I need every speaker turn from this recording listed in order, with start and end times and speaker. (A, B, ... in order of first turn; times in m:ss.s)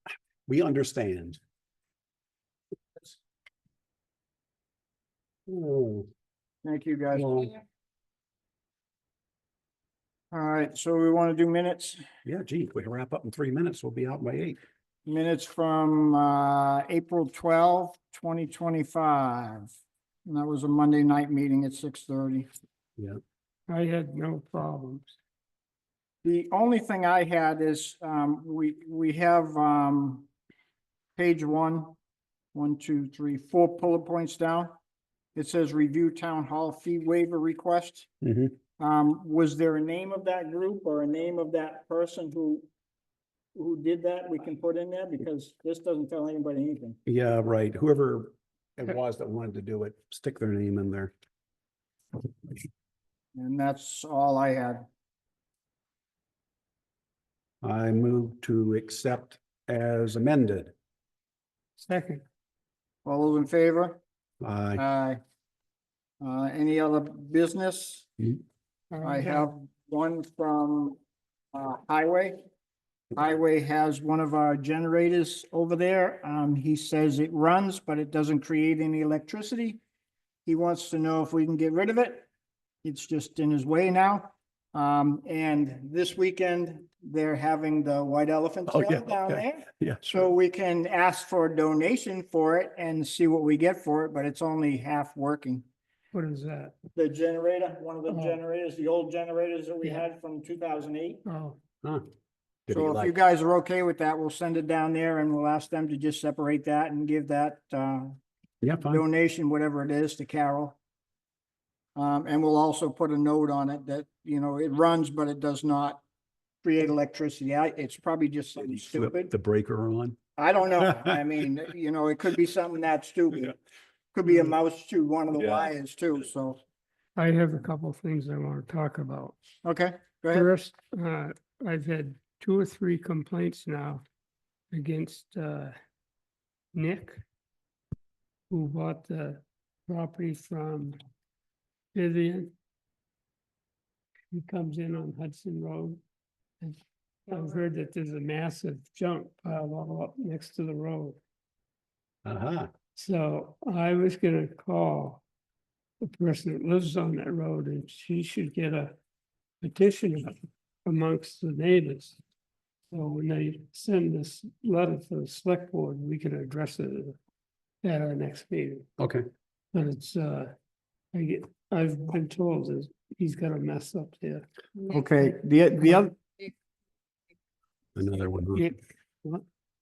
0:00.5-0:01.4 A
0:05.5-0:06.1 A
0:06.6-0:07.4 B
0:07.2-0:07.5 A
0:10.3-0:12.0 B
0:12.2-0:14.6 A
0:15.0-0:19.7 B
0:20.2-0:22.5 B
0:23.7-0:25.1 C
0:26.2-0:30.3 B
0:31.2-0:31.9 B
0:32.5-0:34.7 B
0:35.3-0:38.1 B
0:38.2-0:38.5 A
0:38.8-0:42.6 B
0:43.5-0:47.0 B
0:47.0-0:51.1 A
0:53.3-0:54.8 B
0:57.6-1:00.7 A
1:01.8-1:02.2 C
1:03.0-1:04.0 B
1:04.4-1:04.8 A
1:04.8-1:05.2 B
1:06.2-1:08.1 B
1:08.9-1:09.5 C
1:09.0-1:11.0 B
1:11.5-1:12.4 B
1:13.1-1:19.8 B
1:20.4-1:22.3 B
1:22.8-1:35.6 B
1:28.7-1:30.3 A
1:36.1-1:36.7 C
1:36.9-1:41.2 B
1:38.1-1:38.4 C
1:41.2-1:41.6 C
1:42.7-1:43.1 A
1:42.7-1:48.2 B
1:48.6-1:49.0 A
1:48.9-1:50.8 B
1:52.0-1:56.0 B
1:56.6-1:59.3 B
1:58.8-2:00.2 A
2:00.4-2:03.5 B
2:04.1-2:06.6 B
2:07.2-2:09.3 C
2:09.6-2:10.5 B
2:10.3-2:14.0 C
2:14.7-2:15.7 C
2:16.7-2:17.2 C
2:18.5-2:21.0 C
2:21.9-2:22.5 C
2:24.3-2:26.0 C
2:26.6-2:31.2 C
2:32.2-2:32.7 A
2:32.9-2:35.2 C
2:36.0-2:38.9 C
2:39.6-2:40.3 C
2:40.8-2:42.2 C
2:42.9-2:47.2 C
2:47.8-2:48.9 C
2:49.0-2:49.2 A
2:49.7-2:50.5 C
2:51.1-2:54.5 C
2:54.9-2:56.1 B
2:58.0-2:58.7 A
2:58.5-2:59.4 C